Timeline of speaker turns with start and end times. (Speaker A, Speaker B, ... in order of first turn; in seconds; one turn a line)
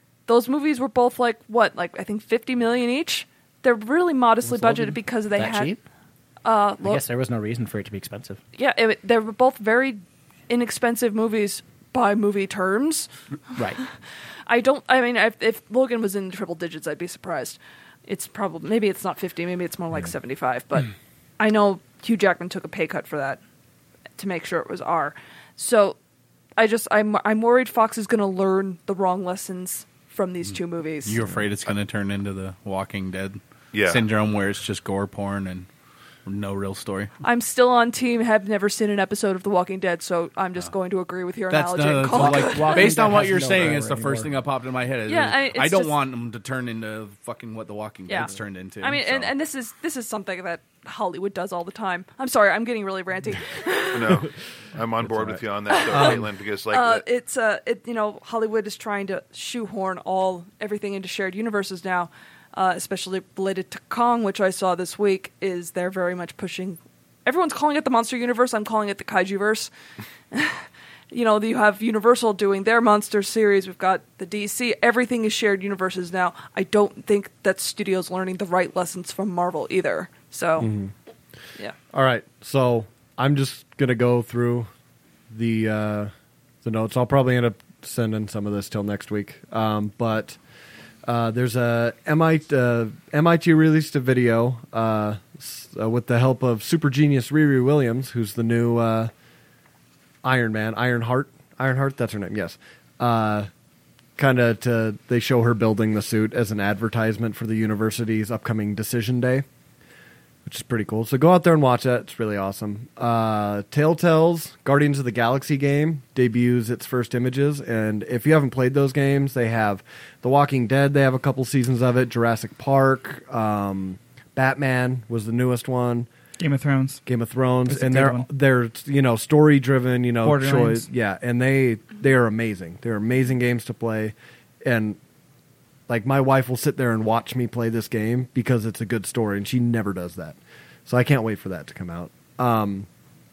Speaker A: 0.3-5.7
Speaker B: 4.4-5.8
Speaker A: 6.4-7.0
Speaker B: 6.8-8.4
Speaker A: 8.5-13.1
Speaker A: 14.5-23.4
Speaker A: 24.2-25.9
Speaker A: 26.6-31.2
Speaker C: 31.0-35.7
Speaker D: 33.7-34.0
Speaker C: 36.2-37.1
Speaker A: 37.2-42.9
Speaker C: 41.5-49.3
Speaker B: 42.0-44.4
Speaker A: 45.1-46.0
Speaker A: 48.1-54.2
Speaker D: 53.9-57.0
Speaker A: 55.7-69.7
Speaker E: 55.9-56.2
Speaker A: 70.3-80.7
Speaker E: 80.6-80.9
Speaker E: 81.9-84.7
Speaker E: 85.3-86.1
Speaker E: 86.6-90.4
Speaker E: 91.0-99.1
Speaker E: 100.2-103.5
Speaker E: 104.2-109.5
Speaker E: 110.4-126.1
Speaker F: 126.4-127.0
Speaker E: 127.0-135.0
Speaker F: 127.7-128.2
Speaker F: 130.2-130.9
Speaker E: 135.9-142.9